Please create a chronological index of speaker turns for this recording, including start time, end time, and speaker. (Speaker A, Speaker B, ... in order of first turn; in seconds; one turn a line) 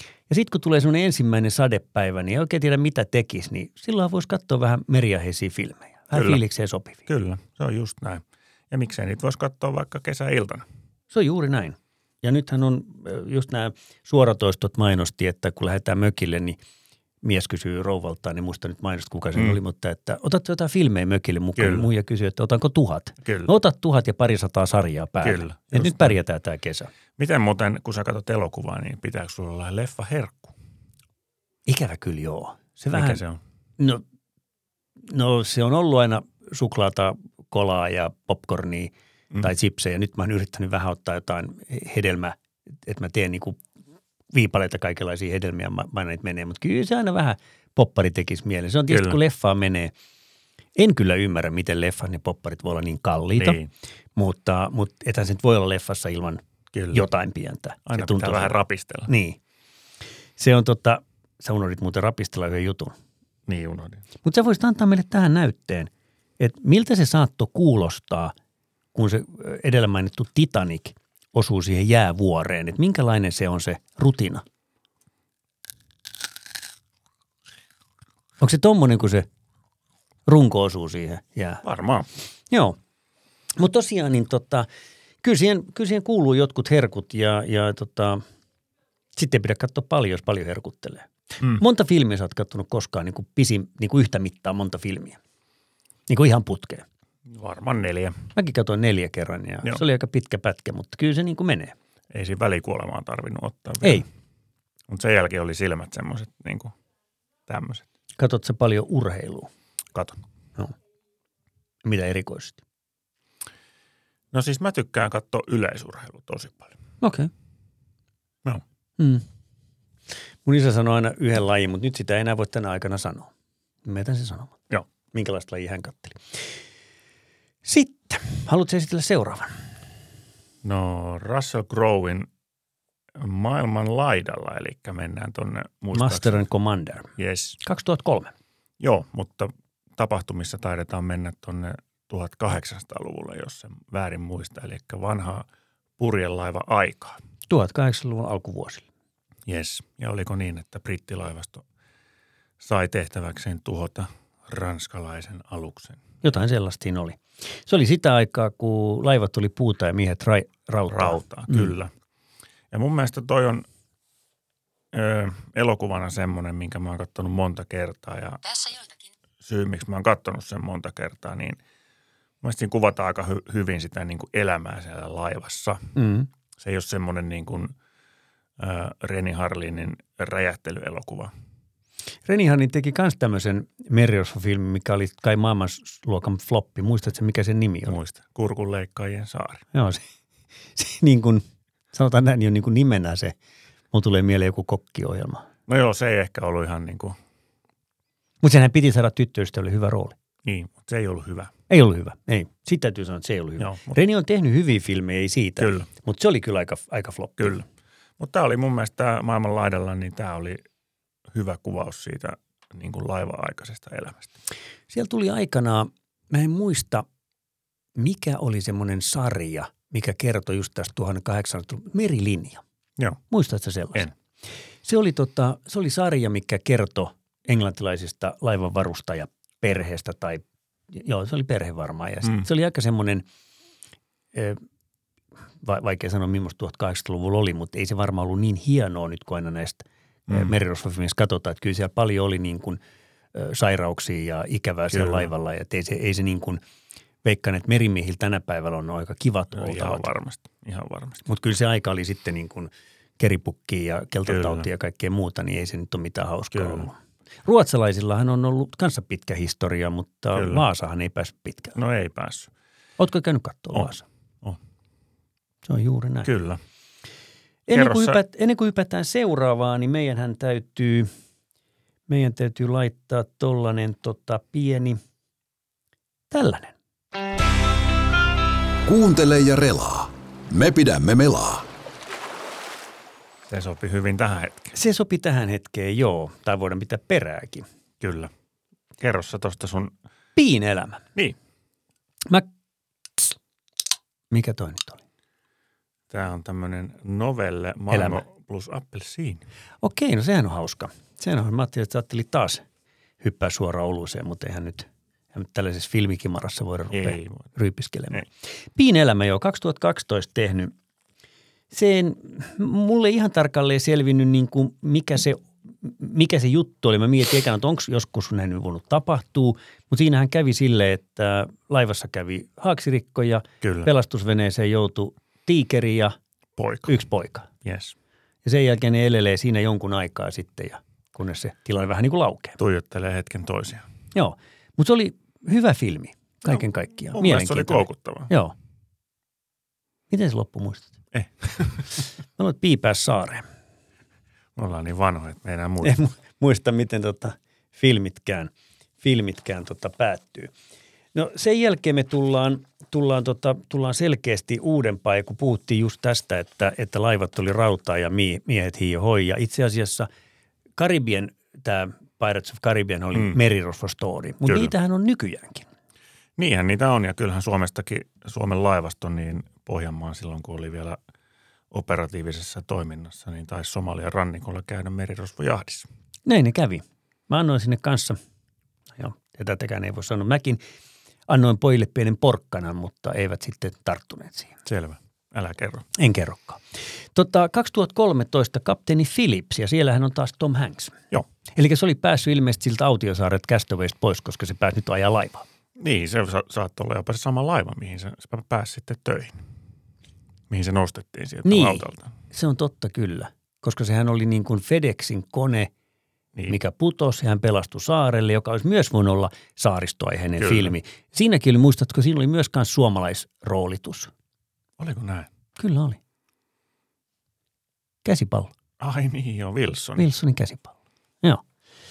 Speaker A: 0.3-7.0
Speaker B: 6.1-6.4
Speaker B: 7.1-10.6
Speaker A: 11.1-16.6
Speaker A: 17.2-26.9
Speaker B: 21.6-21.9
Speaker B: 23.2-23.5
Speaker B: 25.2-26.1
Speaker B: 27.2-30.5
Speaker A: 31.7-33.2
Speaker B: 32.9-33.4
Speaker A: 35.1-43.6
Speaker A: 44.3-49.9
Speaker B: 48.9-49.2
Speaker A: 50.8-53.6
Speaker B: 53.4-53.7
Speaker A: 54.1-59.4
Speaker B: 56.7-57.0
Speaker B: 57.9-59.1
Speaker A: 60.4-62.9
Speaker B: 63.5-64.0
Speaker A: 64.2-68.3
Speaker A: 68.9-74.4
Speaker A: 78.4-79.3
Speaker A: 80.3-81.6
Speaker B: 81.6-82.1
Speaker A: 82.5-82.8
Speaker A: 83.6-84.7
Speaker A: 85.2-88.2
Speaker A: 89.2-95.2
Speaker A: 96.1-96.8
Speaker B: 97.3-98.3
Speaker A: 98.3-101.7
Speaker B: 102.1-104.0
Speaker B: 104.9-106.7
Speaker B: 107.5-107.8
Speaker A: 108.2-109.5
Speaker A: 111.8-112.6
Speaker B: 114.3-116.8
Speaker A: 117.0-117.3
Speaker A: 119.0-119.2
Speaker A: 120.4-123.3
Speaker A: 123.8-124.6
Speaker A: 125.1-126.4
Speaker A: 127.6-129.6
Speaker B: 130.6-132.3
Speaker B: 133.2-136.4
Speaker A: 135.9-138.3
Speaker B: 137.2-137.6
Speaker B: 138.8-145.4
Speaker B: 146.0-147.2
Speaker A: 147.5-148.8
Speaker B: 149.5-151.6
Speaker B: 152.6-156.0
Speaker A: 156.2-161.7
Speaker B: 160.9-161.9
Speaker B: 162.7-163.6
Speaker B: 164.9-168.8
Speaker B: 169.4-171.6
Speaker B: 172.4-175.9
Speaker A: 175.9-176.3
Speaker B: 176.6-177.7
Speaker B: 178.6-181.3
Speaker A: 182.2-187.9
Speaker B: 187.8-189.6
Speaker A: 189.7-190.0
Speaker A: 190.8-193.3
Speaker A: 193.9-195.5
Speaker B: 195.7-197.2
Speaker A: 198.4-200.1
Speaker B: 200.4-201.5
Speaker A: 201.7-207.6
Speaker B: 203.6-204.0
Speaker B: 205.6-205.9
Speaker B: 207.4-207.6
Speaker B: 208.2-210.6
Speaker B: 211.3-214.3
Speaker A: 214.9-217.0
Speaker A: 217.9-222.6
Speaker A: 223.3-224.1
Speaker A: 224.8-233.2
Speaker A: 234.3-234.6
Speaker A: 235.6-242.8
Speaker A: 243.3-246.6
Speaker B: 244.9-245.3
Speaker A: 247.2-250.1
Speaker B: 249.5-251.2
Speaker A: 251.2-261.8
Speaker B: 254.3-254.7
Speaker B: 256.5-256.9
Speaker B: 260.3-260.6
Speaker B: 261.7-262.5
Speaker A: 263.0-264.0
Speaker A: 265.6-266.3
Speaker B: 266.2-266.6
Speaker A: 267.7-271.1
Speaker B: 267.7-268.2
Speaker A: 272.1-275.0
Speaker A: 276.3-276.7
Speaker C: 278.9-281.7
Speaker B: 283.5-284.7
Speaker A: 284.7-287.6
Speaker B: 288.0-288.3
Speaker B: 289.0-289.9
Speaker A: 290.4-291.0
Speaker A: 294.3-295.0
Speaker B: 296.1-299.4
Speaker A: 297.9-298.2
Speaker A: 299.8-302.6
Speaker A: 303.2-310.7
Speaker B: 306.9-307.4
Speaker A: 311.7-326.1
Speaker B: 323.6-323.9
Speaker B: 326.6-326.9
Speaker A: 326.9-327.5
Speaker B: 327.6-327.9
Speaker A: 328.4-332.6
Speaker B: 332.6-333.8
Speaker A: 334.1-338.5
Speaker B: 337.1-338.3
Speaker A: 340.1-340.9
Speaker B: 341.1-341.8
Speaker A: 342.4-343.4
Speaker B: 344.6-345.9
Speaker A: 345.8-350.5
Speaker A: 351.1-360.1
Speaker A: 360.8-365.6
Speaker B: 364.5-364.7
Speaker B: 366.4-371.0
Speaker B: 371.7-375.9
Speaker A: 376.2-378.2
Speaker A: 378.9-380.6
Speaker A: 381.3-384.5
Speaker B: 384.6-385.8
Speaker A: 385.9-386.6
Speaker A: 387.1-391.0
Speaker A: 391.5-395.4
Speaker B: 395.8-399.4
Speaker B: 400.5-402.1
Speaker A: 401.4-405.7
Speaker A: 406.5-414.1
Speaker B: 410.4-410.7
Speaker B: 414.8-415.3
Speaker A: 415.6-416.0
Speaker A: 418.0-418.5
Speaker B: 418.8-420.1
Speaker A: 420.0-421.4